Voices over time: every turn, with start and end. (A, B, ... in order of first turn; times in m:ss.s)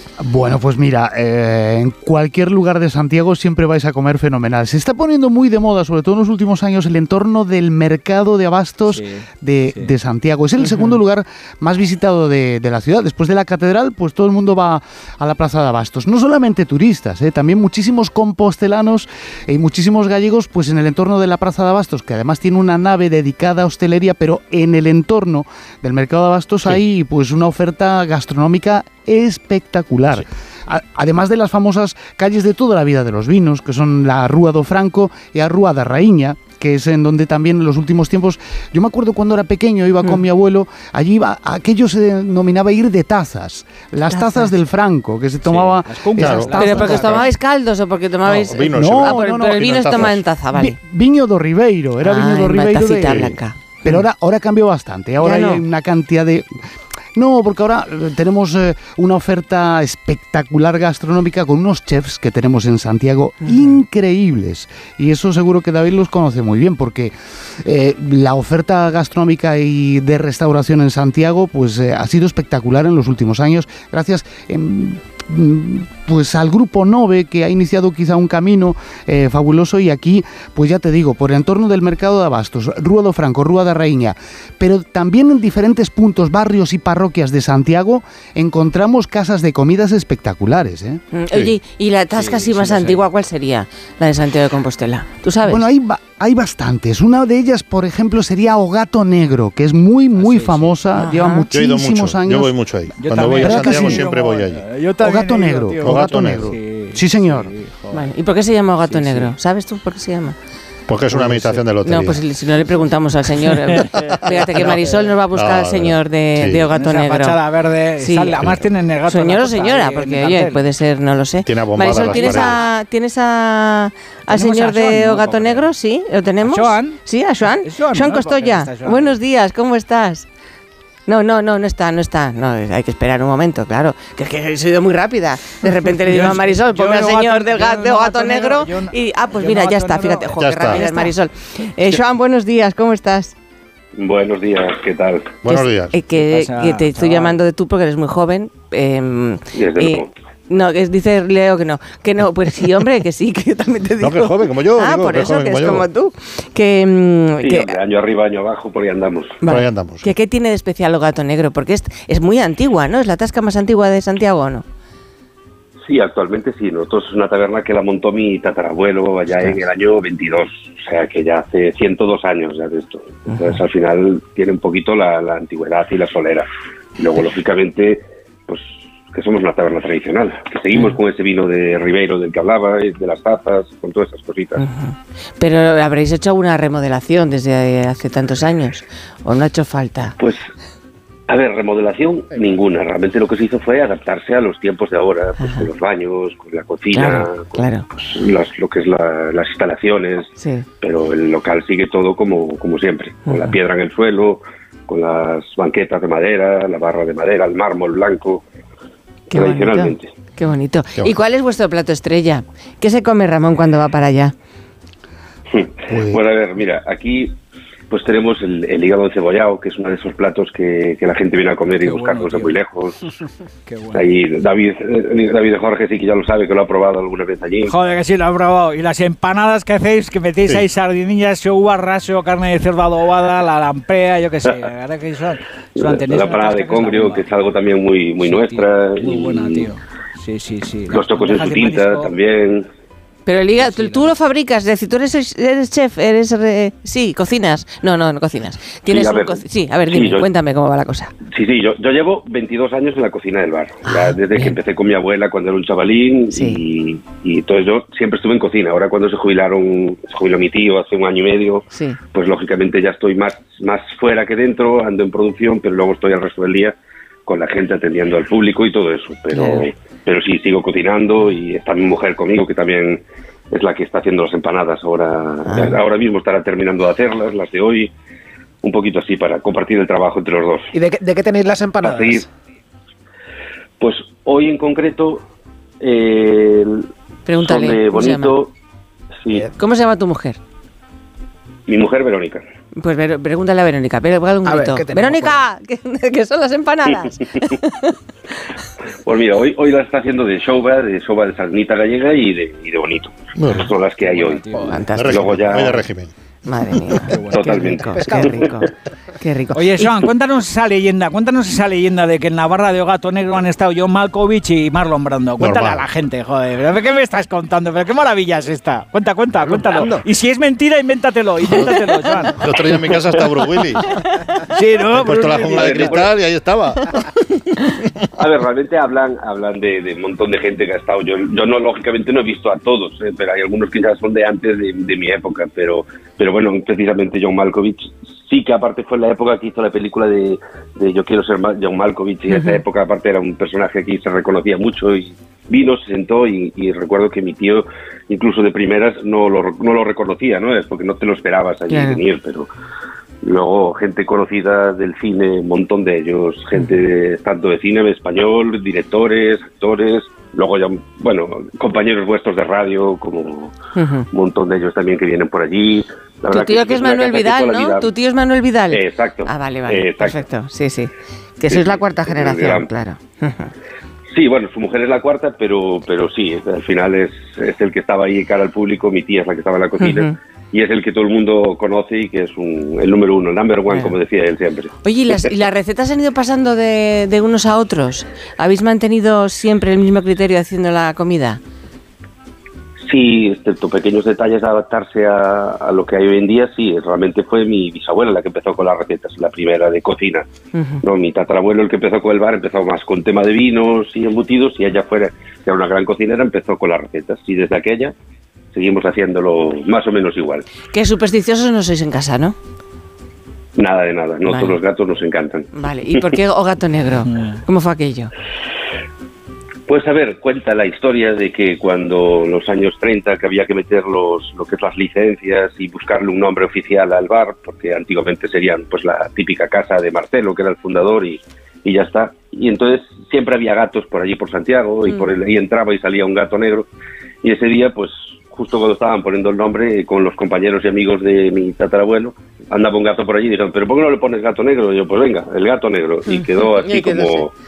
0:00.2-0:47.3 A
0:08.9-0:09.9 B
0:10.7-0:10.9 C
0:44.1-0:44.5 C
0:45.4-0:47.3 B
0:46.2-0:47.0 D
0:46.6-0:50.8 C
0:48.2-0:50.2 D
0:48.7-0:56.6 A
0:52.0-0:53.9 C
0:53.1-0:53.3 D
0:55.2-0:55.6 C
0:57.1-1:31.0 A
1:03.4-1:03.8 C
1:31.1-1:35.6 C
1:32.1-1:33.0 B
1:35.4-1:42.5 A
1:40.2-1:40.8 B
1:41.0-1:41.5 C
1:41.5-1:44.6 D
1:43.0-1:48.1 B
1:43.4-1:44.1 A
1:45.0-1:47.5 A
1:45.8-1:46.5 D
1:47.9-1:50.3 C
1:48.8-1:49.3 B
1:50.9-1:52.2 D
1:51.1-1:51.6 B
1:51.8-1:57.4 C
1:53.5-1:54.8 B
1:54.0-1:54.8 D
1:55.3-1:56.6 D
1:56.7-2:00.6 B
1:58.0-1:58.5 C
1:59.1-2:10.3 C
2:01.4-2:02.6 D
2:02.0-2:02.6 B
2:04.3-2:05.7 B
2:06.4-2:09.2 B
2:11.1-2:23.3 C
2:16.0-2:21.1 B
2:20.4-2:20.8 D
2:24.0-2:25.4 E
2:25.4-2:25.9 D
2:25.5-2:37.8 C
2:26.2-2:27.4 B
2:29.5-2:30.1 E
2:34.0-2:35.9 D
2:37.4-2:39.4 E
2:39.4-2:44.6 C
2:39.4-2:40.1 D
2:45.9-2:56.5 E
2:57.0-3:04.6 E
3:04.6-3:10.2 C
3:10.2-3:10.4 E
3:11.3-3:28.4 E
3:15.4-3:15.7 C
3:16.9-3:17.8 C
3:20.4-3:20.7 C
3:23.3-3:23.5 C
3:29.3-3:34.3 C
3:29.3-3:30.1 E
3:35.5-3:37.4 E
3:35.9-3:36.2 A
3:37.9-3:43.0 E
3:41.8-3:42.6 B
3:43.6-3:44.1 B
3:43.9-3:47.8 E
3:47.6-3:57.3 B
3:55.8-3:59.7 E
3:58.2-4:02.1 B
4:00.9-4:02.6 E
4:03.2-4:11.1 C
4:03.6-4:04.1 B
4:08.8-4:10.3 E
4:11.3-4:37.9 E
4:13.8-4:14.6 C
4:16.3-4:16.6 C
4:21.7-4:22.0 C
4:29.3-4:29.7 C
4:35.4-4:35.7 C
4:38.6-4:40.7 E
4:40.7-4:42.2 F
4:41.8-4:42.2 E
4:43.8-4:45.2 E
4:45.8-4:48.5 E
4:47.2-4:48.4 C
4:49.5-4:50.4 C
4:51.7-4:52.4 E
4:52.8-4:58.0 C
4:54.4-4:55.4 F
4:59.0-5:04.5 E
5:03.4-5:03.7 D
5:04.0-5:04.9 B
5:04.5-5:05.5 C
5:04.9-5:06.1 D
5:05.1-5:05.8 E
5:06.4-5:10.0 C
5:07.1-5:07.7 B
5:07.3-5:08.5 E
5:07.9-5:08.3 F
5:09.5-5:22.4 B
5:15.4-5:15.8 D
5:22.4-5:24.0 D
5:24.5-5:26.0 B
5:24.9-5:27.0 D
5:25.5-5:26.1 E
5:28.2-5:52.5 E
5:42.3-5:42.6 C
5:51.7-5:52.0 C
5:53.2-6:03.5 E
6:03.7-6:04.1 C
6:04.1-6:07.9 E
6:06.3-6:13.5 C
6:08.7-6:10.2 E
6:11.5-6:12.7 E
6:14.1-6:25.3 E
6:19.8-6:20.1 C
6:24.8-6:31.4 C
6:32.8-6:40.2 E
6:40.5-6:40.8 C
6:40.8-6:47.9 E
6:48.5-6:50.4 E
6:50.7-6:52.4 C
6:53.6-6:55.5 E
6:54.3-6:54.6 C
6:55.5-6:58.1 C
6:57.1-6:57.4 B
6:59.7-7:16.7 E
7:17.2-7:27.3 E
7:26.1-7:27.2 C